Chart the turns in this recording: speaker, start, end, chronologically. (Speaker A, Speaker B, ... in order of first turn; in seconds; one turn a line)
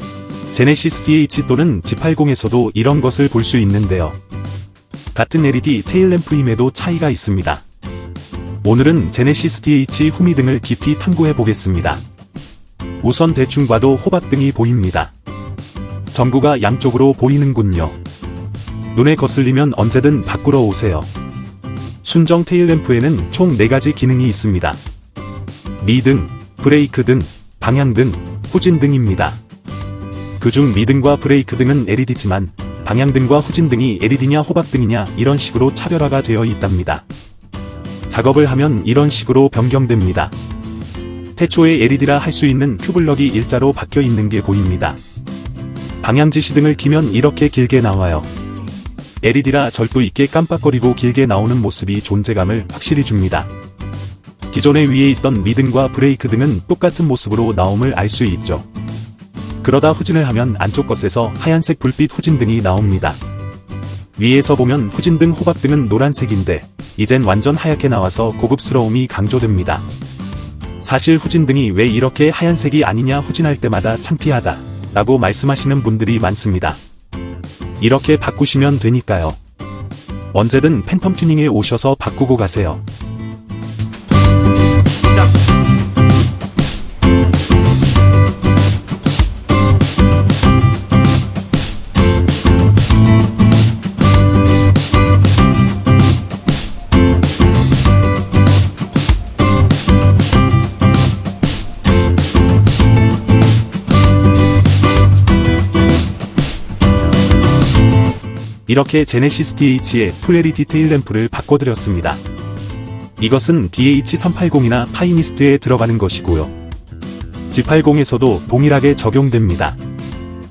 Speaker A: 0.5-4.2
Speaker A: 5.1-7.6
Speaker A: 8.6-12.0
Speaker A: 13.0-15.1
Speaker A: 16.1-18.0
Speaker A: 18.9-21.1
Speaker A: 22.0-24.8
Speaker A: 25.8-29.4
Speaker A: 30.4-37.0
Speaker A: 38.1-40.3
Speaker A: 41.4-45.0
Speaker A: 46.0-48.3
Speaker A: 49.2-53.5
Speaker A: 54.5-58.6
Speaker A: 59.6-63.2
Speaker A: 64.2-69.8
Speaker A: 70.8-76.8
Speaker A: 77.8-79.4
Speaker A: 80.3-82.8
Speaker A: 108.7-112.2
Speaker A: 113.2-116.5
Speaker A: 117.5-119.8